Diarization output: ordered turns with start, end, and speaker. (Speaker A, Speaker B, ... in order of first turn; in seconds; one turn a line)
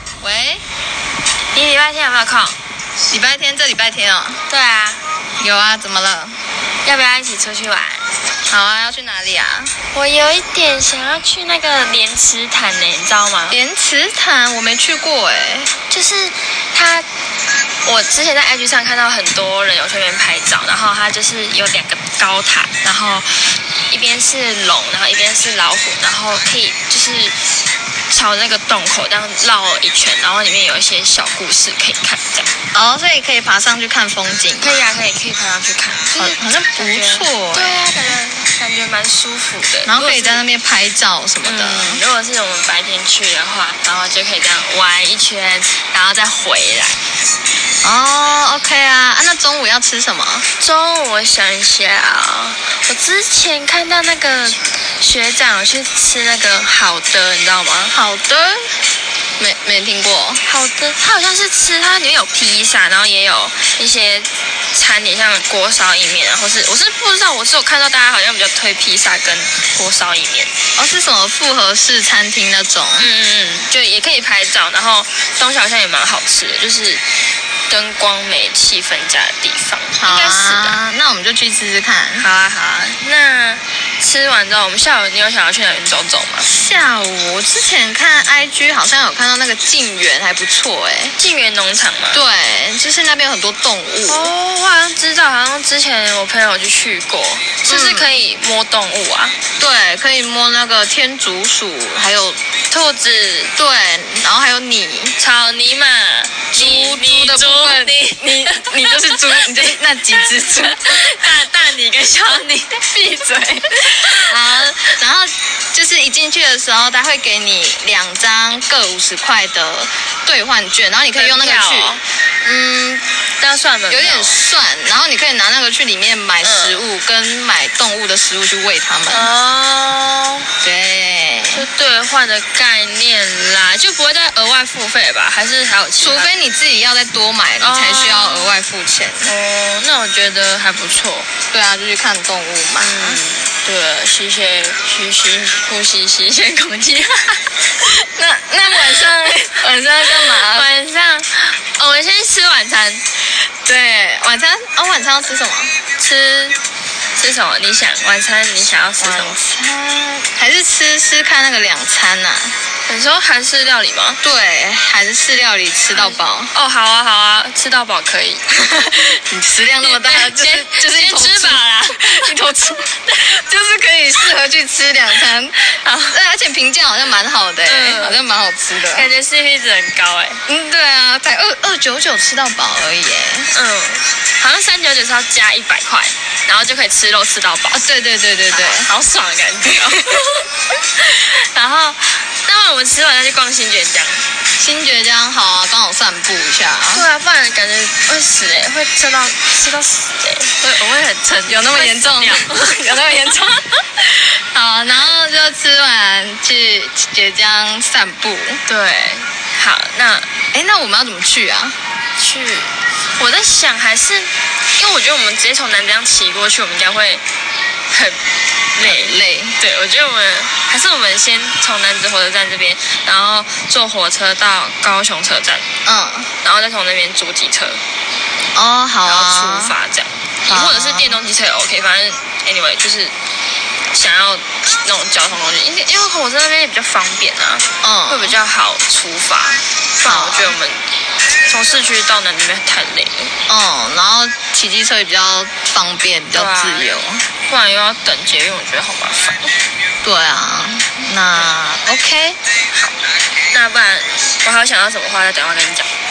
Speaker A: 0.2-0.6
Speaker B: 1.5-2.6
Speaker A: 3.1-4.4
Speaker B: 4.5-5.0
Speaker A: 5.4-6.4
Speaker B: 6.8-8.1
Speaker A: 8.5-9.7
Speaker B: 9.9-13.6
Speaker A: 13.5-15.7
Speaker B: 15.9-17.1
Speaker B: 17.8-27.4
Speaker B: 28.1-32.5
Speaker A: 32.7-34.9
Speaker B: 34.6-40.4
Speaker A: 36.1-38.1
Speaker A: 39.9-42.0
Speaker B: 41.4-47.0
Speaker A: 47.8-50.5
Speaker B: 50.6-58.0
Speaker A: 57.9-58.8
Speaker A: 59.4-60.4
Speaker B: 60.5-70.5
Speaker A: 70.8-73.1
Speaker B: 73.0-77.0
Speaker B: 77.7-80.8
Speaker A: 80.0-82.3
Speaker B: 82.2-86.5
Speaker A: 86.5-91.2
Speaker B: 91.2-92.2
Speaker A: 92.1-94.3
Speaker B: 94.1-99.3
Speaker A: 97.7-98.2
Speaker A: 99.6-102.4
Speaker B: 102.7-103.5
Speaker A: 103.6-105.2
Speaker B: 105.2-112.9
Speaker A: 106.5-111.3
Speaker A: 112.8-123.0
Speaker B: 113.9-114.3
Speaker B: 121.2-122.0
Speaker B: 123.4-124.4
Speaker A: 123.9-129.3
Speaker B: 126.4-126.8
Speaker B: 129.1-130.5
Speaker A: 130.6-131.7
Speaker B: 131.5-136.3
Speaker A: 136.0-139.3
Speaker B: 137.6-138.5
Speaker B: 139.2-141.3
Speaker A: 141.5-143.2
Speaker B: 142.8-147.5
Speaker A: 147.8-150.7
Speaker B: 150.2-153.0
Speaker A: 153.7-155.7
Speaker B: 156.0-156.6
Speaker B: 157.2-159.4
Speaker A: 159.0-162.6
Speaker B: 162.9-164.2
Speaker A: 164.2-166.5
Speaker B: 165.9-168.4
Speaker A: 168.5-179.1
Speaker B: 169.8-172.4
Speaker B: 175.7-176.2
Speaker B: 177.6-178.2
Speaker B: 178.8-180.4
Speaker A: 180.5-183.5
Speaker B: 183.5-187.8
Speaker A: 187.7-188.9
Speaker B: 188.5-194.2
Speaker A: 194.6-197.1
Speaker B: 196.9-203.6
Speaker A: 201.5-208.6
Speaker B: 208.7-210.3
Speaker A: 210.5-211.8
Speaker B: 212.2-217.2
Speaker B: 217.9-218.2
Speaker B: 218.7-225.7
Speaker A: 218.8-219.6
Speaker A: 225.8-226.3
Speaker B: 226.4-227.8
Speaker A: 228.6-229.8
Speaker B: 229.0-233.1
Speaker A: 230.5-231.2
Speaker B: 233.9-240.8
Speaker A: 237.8-238.4
Speaker A: 240.1-240.6
Speaker B: 241.5-243.3
Speaker A: 243.5-247.2
Speaker B: 246.3-246.9
Speaker B: 247.5-249.5
Speaker A: 250.0-252.4
Speaker B: 253.5-255.9